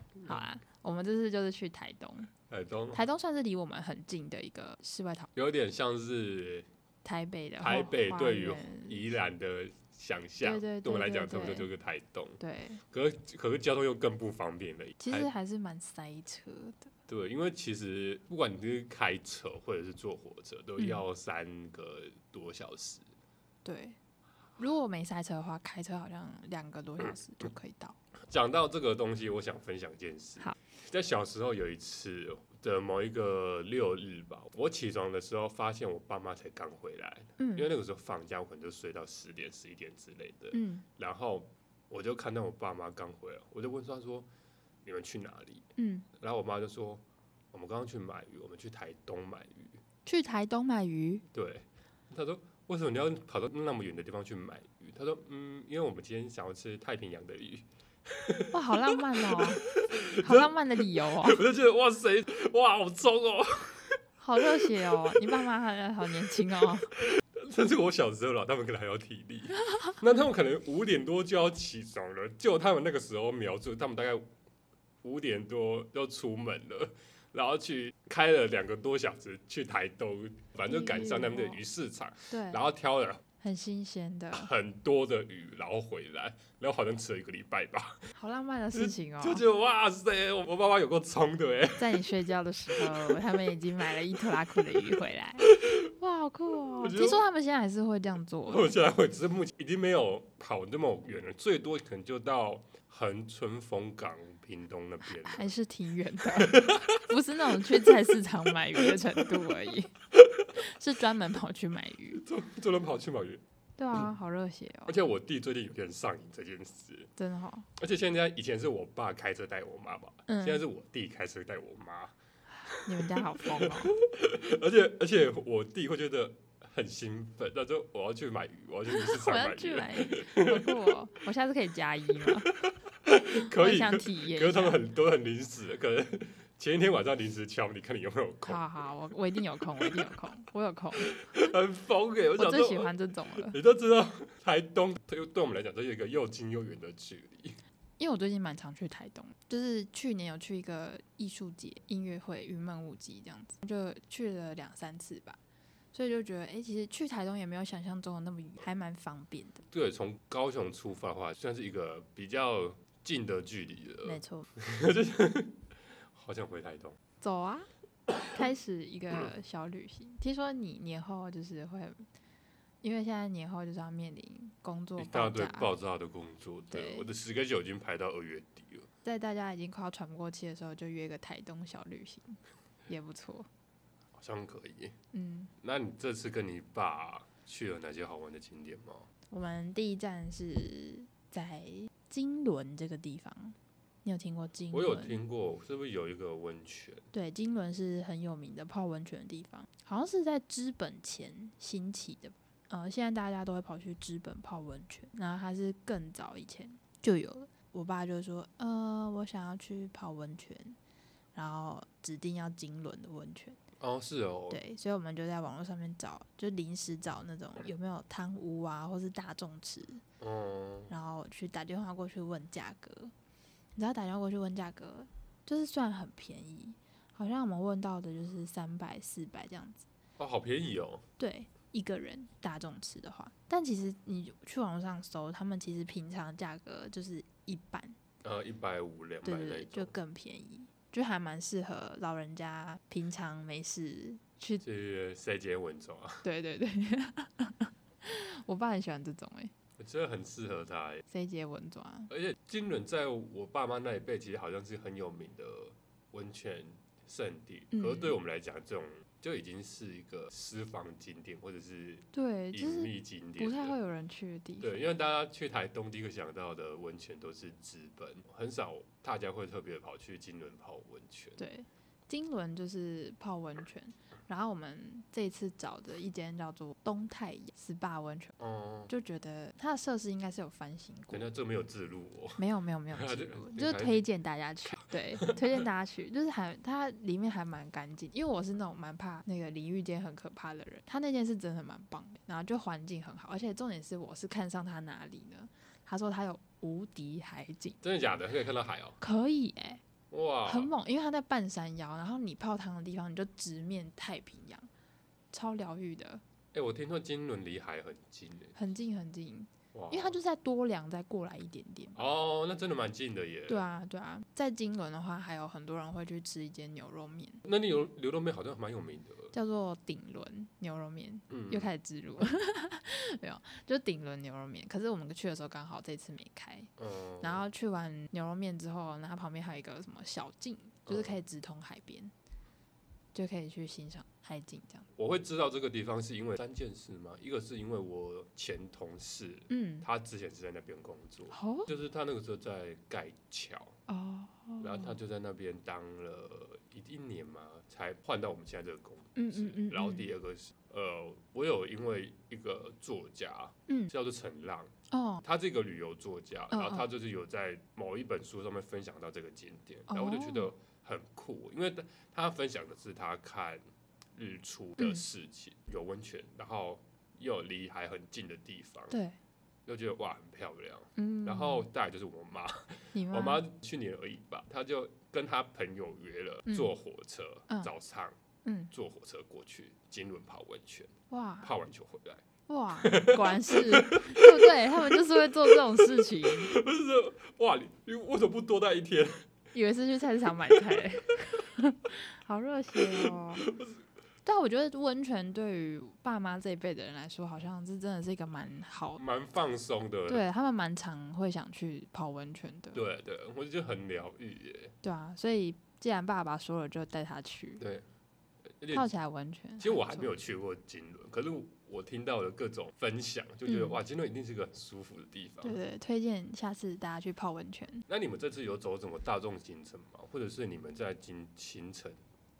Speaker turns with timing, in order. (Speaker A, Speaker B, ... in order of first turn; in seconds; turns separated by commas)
Speaker A: 0.2-2.3, Speaker B: 2.5-3.0, Speaker A: 2.9-5.3, Speaker B: 5.3-6.7, Speaker A: 7.0-9.1, Speaker B: 7.6-15.3, Speaker A: 10.4-11.7, Speaker A: 12.4-12.8, Speaker A: 15.0-16.9, Speaker B: 17.1-23.1, Speaker A: 20.8-21.0, Speaker A: 23.6-24.0, Speaker A: 24.6-28.0, Speaker B: 28.3-44.3, Speaker A: 37.4-37.7, Speaker A: 40.5-40.9, Speaker B: 44.8-45.7, Speaker A: 45.8-46.1, Speaker B: 46.2-49.8, Speaker A: 50.0-51.2, Speaker B: 51.3-65.4, Speaker A: 58.5-59.7, Speaker A: 60.2-61.4, Speaker A: 64.2-66.9, Speaker B: 67.0-74.3, Speaker B: 75.0-83.2, Speaker A: 80.7-81.6, Speaker A: 82.3-82.6, Speaker A: 83.4-84.5, Speaker B: 84.3-88.0, Speaker A: 88.1-89.4, Speaker B: 88.7-92.1, Speaker A: 91.8-98.7, Speaker B: 92.7-93.4, Speaker B: 93.9-95.8, Speaker B: 96.5-97.2, Speaker B: 98.5-105.5, Speaker A: 105.0-109.9, Speaker B: 106.3-107.0, Speaker B: 107.6-107.9, Speaker B: 108.7-109.2, Speaker B: 110.1-110.5, Speaker A: 110.6-112.2, Speaker B: 112.1-113.4, Speaker A: 113.8-114.9, Speaker B: 114.9-117.1, Speaker A: 117.2-117.7, Speaker B: 117.8-122.1, Speaker A: 120.3-120.6, Speaker A: 122.6-123.9, Speaker B: 122.7-130.9, Speaker A: 128.9-132.5, Speaker B: 132.2-138.9, Speaker A: 133.5-134.8, Speaker A: 138.4-141.5, Speaker B: 139.7-140.1, Speaker B: 141.0-147.6, Speaker A: 142.4-143.6, Speaker A: 148.0-155.4, Speaker A: 155.9-159.6, Speaker B: 159.7-165.6, Speaker A: 164.0-164.5, Speaker B: 166.1-167.0, Speaker A: 167.2-167.7, Speaker A: 168.3-172.0, Speaker A: 172.8-175.7, Speaker B: 175.0-178.9, Speaker A: 176.7-177.1, Speaker A: 179.0-183.5, Speaker B: 184.2-185.0, Speaker A: 185.1-185.5, Speaker B: 185.6-189.1, Speaker A: 189.3-195.2, Speaker B: 194.7-197.0, Speaker A: 197.1-210.8, Speaker A: 211.3-213.6, Speaker B: 213.8-214.6, Speaker A: 214.5-220.0, Speaker B: 220.2-220.9, Speaker A: 220.9-223.1, Speaker A: 223.8-229.8, Speaker B: 230.2-231.0, Speaker A: 231.2-237.9, Speaker B: 238.2-239.9, Speaker A: 239.2-244.6, Speaker B: 244.6-246.2, Speaker A: 246.2-249.5, Speaker B: 249.8-251.0, Speaker A: 251.1-252.1, Speaker B: 252.1-263.8, Speaker A: 257.7-258.1, Speaker A: 262.1-264.8, Speaker B: 264.6-271.4, Speaker A: 271.4-278.3, Speaker B: 278.4-278.9, Speaker A: 278.9-281.2, Speaker B: 281.1-284.0, Speaker A: 282.4-297.8, Speaker B: 284.6-285.6, Speaker B: 297.8-299.0, Speaker A: 299.0-299.8, Speaker B: 300.1-300.7, Speaker A: 300.4-304.7, Speaker A: 305.3-306.2, Speaker B: 306.5-308.6, Speaker A: 308.6-312.0, Speaker B: 309.7-310.2, Speaker B: 311.9-313.6, Speaker A: 313.5-317.4, Speaker B: 317.4-319.3, Speaker A: 319.3-332.1, Speaker B: 321.3-321.7, Speaker B: 326.8-327.4, Speaker B: 330.9-331.1, Speaker A: 333.1-334.9, Speaker B: 335.0-343.8, Speaker A: 339.5-339.9, Speaker A: 341.3-341.7, Speaker A: 343.9-344.9, Speaker B: 344.6-363.6, Speaker A: 349.1-350.1, Speaker A: 353.7-353.9, Speaker A: 354.9-355.2, Speaker A: 356.5-356.9, Speaker A: 359.9-360.5, Speaker B: 364.1-368.9, Speaker A: 368.9-369.2, Speaker B: 369.6-378.1, Speaker A: 370.9-371.7, Speaker A: 372.9-373.4, Speaker A: 378.4-378.7, Speaker B: 378.7-382.2, Speaker A: 381.1-381.5, Speaker A: 382.5-386.5, Speaker B: 382.8-389.3, Speaker A: 389.5-393.4, Speaker B: 392.7-393.7, Speaker A: 394.2-399.0, Speaker B: 399.0-400.2, Speaker A: 400.1-402.8, Speaker B: 402.7-404.7, Speaker A: 404.8-407.6, Speaker B: 407.6-407.9, Speaker B: 408.6-408.9, Speaker A: 408.7-410.1, Speaker B: 409.6-415.6, Speaker A: 413.5-413.7, Speaker A: 415.4-417.8, Speaker B: 417.9-422.0